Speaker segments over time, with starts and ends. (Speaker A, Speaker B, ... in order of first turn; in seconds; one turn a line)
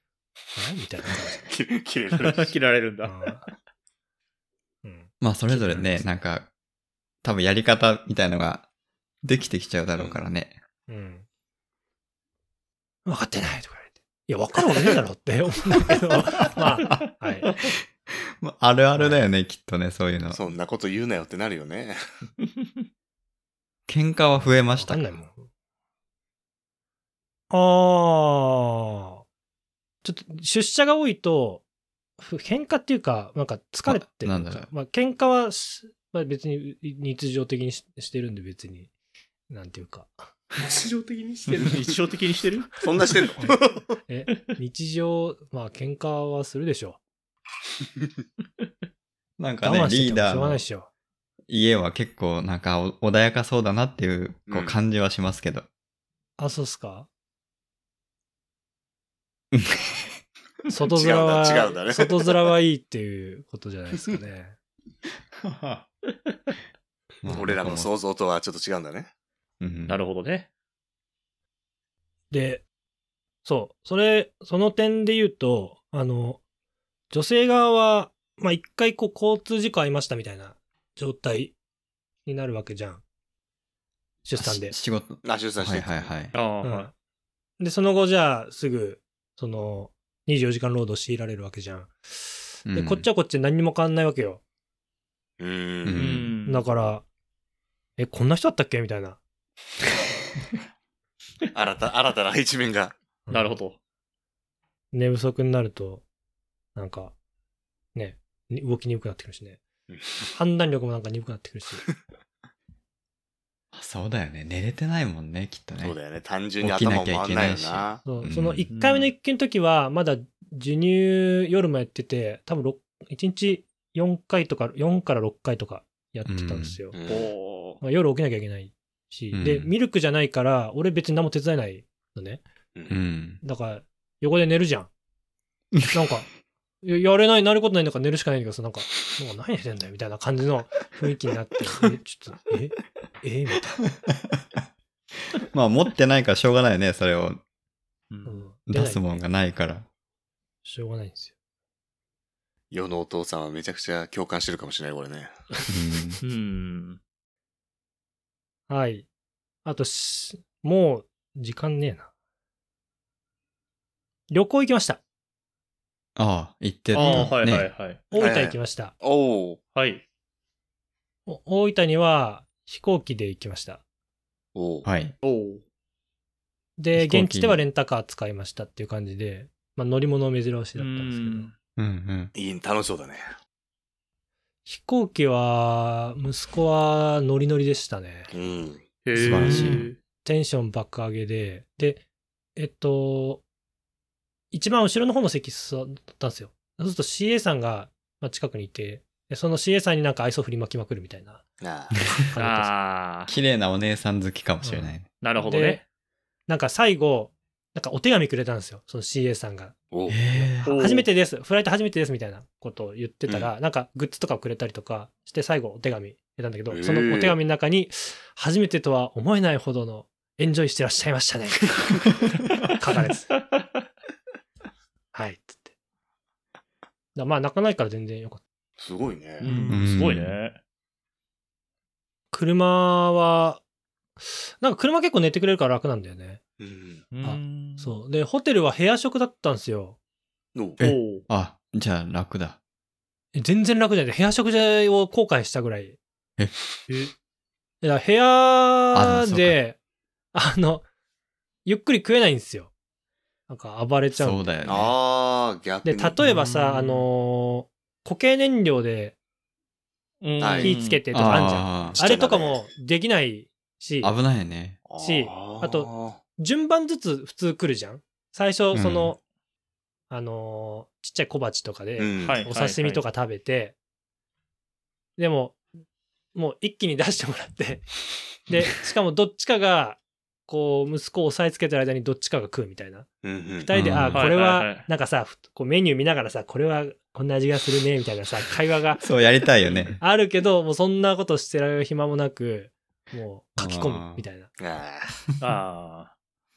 Speaker A: 0.6-1.4
Speaker B: 1.4-2.5
Speaker C: 2.2-3.3
Speaker A: 3.0-3.5
Speaker A: 4.8-6.0
Speaker D: 5.2-6.5
Speaker D: 7.2-8.7
Speaker D: 9.2-10.5
Speaker B: 10.0-10.2
Speaker A: 10.9-11.2
Speaker A: 13.1-17.5
Speaker D: 18.4-20.4
Speaker A: 19.0-19.2
Speaker B: 20.3-22.0
Speaker D: 23.9-25.1
Speaker A: 24.4-25.5
Speaker A: 27.5-29.2
Speaker A: 30.0-31.6
Speaker A: 32.2-38.9
Speaker D: 33.9-34.7
Speaker A: 39.5-40.1
Speaker E: 40.6-41.8
Speaker C: 41.6-42.9
Speaker B: 42.8-43.9
Speaker A: 43.4-47.0
Speaker D: 49.4-50.6
Speaker A: 49.6-50.9
Speaker D: 51.5-55.7
Speaker B: 54.5-54.8
Speaker A: 56.4-57.1
Speaker D: 59.5-59.9
Speaker A: 60.7-64.5
Speaker B: 60.9-62.1
Speaker D: 65.4-65.8
Speaker D: 67.2-67.9
Speaker B: 67.3-69.1
Speaker D: 69.6-70.0
Speaker C: 69.9-70.5
Speaker A: 72.3-72.7
Speaker A: 73.5-76.4
Speaker A: 77.1-81.5
Speaker A: 82.3-83.0
Speaker A: 84.2-84.8
Speaker D: 84.4-86.3
Speaker B: 85.2-86.1
Speaker C: 86.3-86.9
Speaker A: 86.6-86.9
Speaker A: 87.6-94.4
Speaker D: 92.7-93.1
Speaker B: 95.4-96.0
Speaker D: 95.8-96.3
Speaker C: 95.9-96.7
Speaker A: 96.5-97.0
Speaker A: 98.0-99.2
Speaker B: 101.5-102.9
Speaker A: 103.3-103.6
Speaker C: 103.3-103.8
Speaker A: 104.9-106.0
Speaker A: 106.8-107.1
Speaker A: 108.0-109.6
Speaker B: 109.9-110.2
Speaker A: 110.3-111.8
Speaker D: 113.7-116.0
Speaker B: 115.8-118.0
Speaker D: 116.6-118.7
Speaker A: 118.0-127.0
Speaker C: 118.7-119.1
Speaker D: 126.3-126.8
Speaker B: 126.9-127.3
Speaker C: 127.1-127.8
Speaker A: 127.8-132.4
Speaker D: 129.3-129.7
Speaker D: 132.9-133.4
Speaker A: 133.4-134.9
Speaker A: 135.9-136.3
Speaker A: 136.8-143.8
Speaker D: 145.5-147.4
Speaker C: 148.1-148.4
Speaker A: 148.3-149.1
Speaker D: 148.7-149.9
Speaker A: 150.6-151.3
Speaker B: 152.7-155.3
Speaker D: 155.7-156.2
Speaker C: 156.2-157.0
Speaker A: 158.7-159.1
Speaker A: 159.7-162.1
Speaker A: 164.3-165.0
Speaker D: 166.2-167.7
Speaker C: 166.9-168.0
Speaker A: 167.0-167.3
Speaker A: 168.1-168.9
Speaker B: 168.1-169.6
Speaker C: 169.8-170.0
Speaker A: 171.3-173.8
Speaker B: 174.6-174.9
Speaker D: 174.8-175.2
Speaker C: 175.2-175.6
Speaker A: 176.8-181.5
Speaker D: 176.9-177.6
Speaker C: 180.8-181.5
Speaker D: 181.8-182.3
Speaker B: 182.3-183.3
Speaker A: 184.7-188.3
Speaker B: 188.3-188.8
Speaker C: 189.1-190.0
Speaker D: 189.2-189.9
Speaker E: 189.3-189.8
Speaker A: 190.2-192.0
Speaker A: 192.6-193.4
Speaker A: 194.5-201.4
Speaker B: 201.6-202.0
Speaker A: 202.2-202.7
Speaker C: 202.3-203.3
Speaker D: 203.3-205.1
Speaker A: 204.6-205.8
Speaker C: 205.2-205.8
Speaker A: 206.5-209.8
Speaker B: 209.9-210.2
Speaker D: 210.1-210.7
Speaker A: 210.4-221.8
Speaker C: 210.6-211.1
Speaker B: 213.3-213.5
Speaker B: 216.7-217.4
Speaker A: 222.7-223.3
Speaker A: 225.1-225.7
Speaker A: 227.2-228.4
Speaker B: 228.8-229.5
Speaker C: 229.4-230.6
Speaker D: 229.7-230.4
Speaker A: 232.3-233.6
Speaker A: 234.3-236.4
Speaker B: 236.6-237.0
Speaker C: 237.1-237.9
Speaker A: 237.2-240.0
Speaker D: 240.8-242.6
Speaker C: 240.8-241.2
Speaker A: 243.3-246.0
Speaker C: 246.9-247.1
Speaker A: 247.8-249.8
Speaker D: 248.9-249.6
Speaker A: 250.3-250.8
Speaker A: 251.7-252.7
Speaker A: 253.5-254.5
Speaker D: 254.1-254.9
Speaker B: 254.7-256.1
Speaker A: 255.8-259.1
Speaker E: 256.2-257.1
Speaker C: 260.2-261.1
Speaker B: 260.4-260.8
Speaker A: 260.6-264.1
Speaker D: 261.1-262.0
Speaker B: 261.9-262.6
Speaker D: 264.0-264.8
Speaker B: 264.9-266.2
Speaker A: 265.0-269.2
Speaker D: 268.7-269.1
Speaker A: 270.1-273.8
Speaker B: 272.0-272.4
Speaker C: 272.2-273.0
Speaker A: 275.2-275.6
Speaker A: 276.3-283.1
Speaker B: 283.2-283.7
Speaker A: 283.6-289.1
Speaker D: 283.7-284.3
Speaker C: 284.1-284.9
Speaker D: 289.0-290.0
Speaker A: 290.0-294.5
Speaker D: 293.6-294.2
Speaker B: 294.6-295.2
Speaker C: 295.4-296.1